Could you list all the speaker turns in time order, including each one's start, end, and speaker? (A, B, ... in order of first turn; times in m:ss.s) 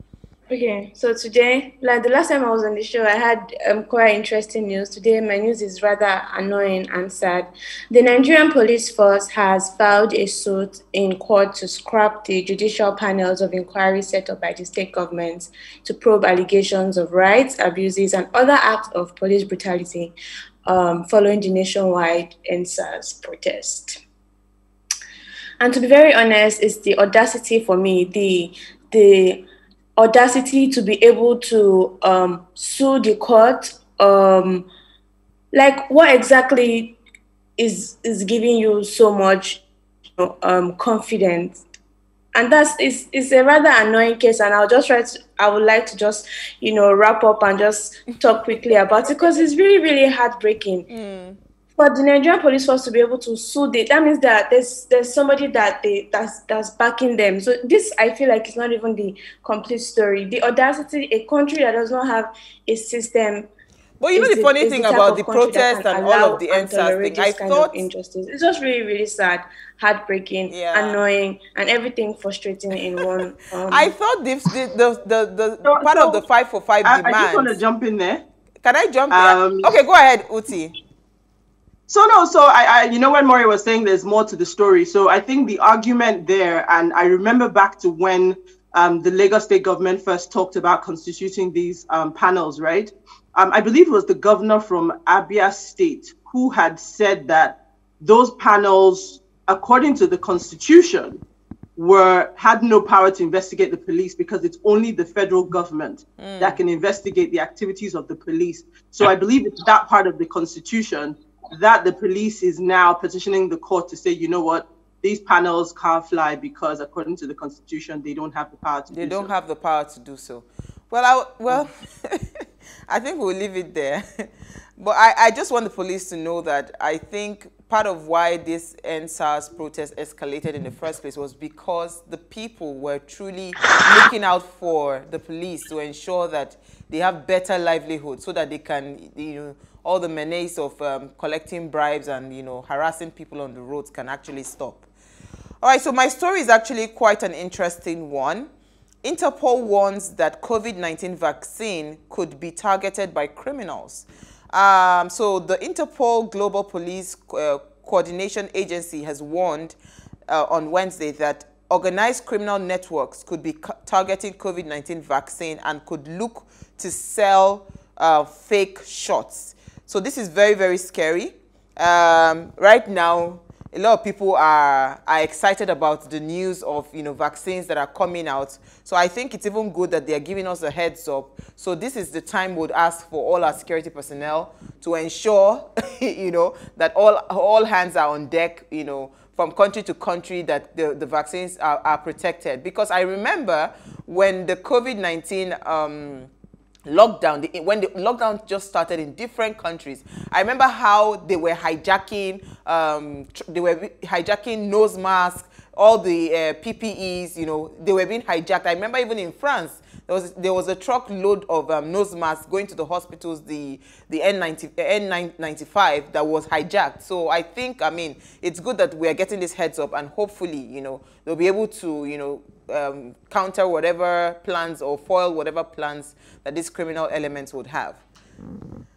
0:00.5-0:20.1 A
0:20.6-0:24.0 A
0:25.6-0:29.4 A
0:30.0-0:34.7 A
0:35.5-0:37.0 A
0:37.6-0:39.6 A
0:40.2-0:41.6 A
0:42.3-0:50.9 A
0:50.9-0:51.4 B
0:51.8-1:03.5 A
1:04.0-1:07.8 B
1:04.1-1:13.9 A
1:10.5-1:11.0 B
1:13.7-1:17.6 B
1:15.6-1:16.2 C
1:16.8-1:18.2 C
1:18.6-1:20.7 B
1:19.1-1:19.7 C
1:21.9-1:41.2 C
1:41.8-1:59.3 C
1:46.2-1:46.6 B
1:58.9-2:24.9 B
2:25.6-2:28.5 B
2:29.0-2:39.8 B
2:40.3-3:16.3 B
3:16.9-3:48.0 B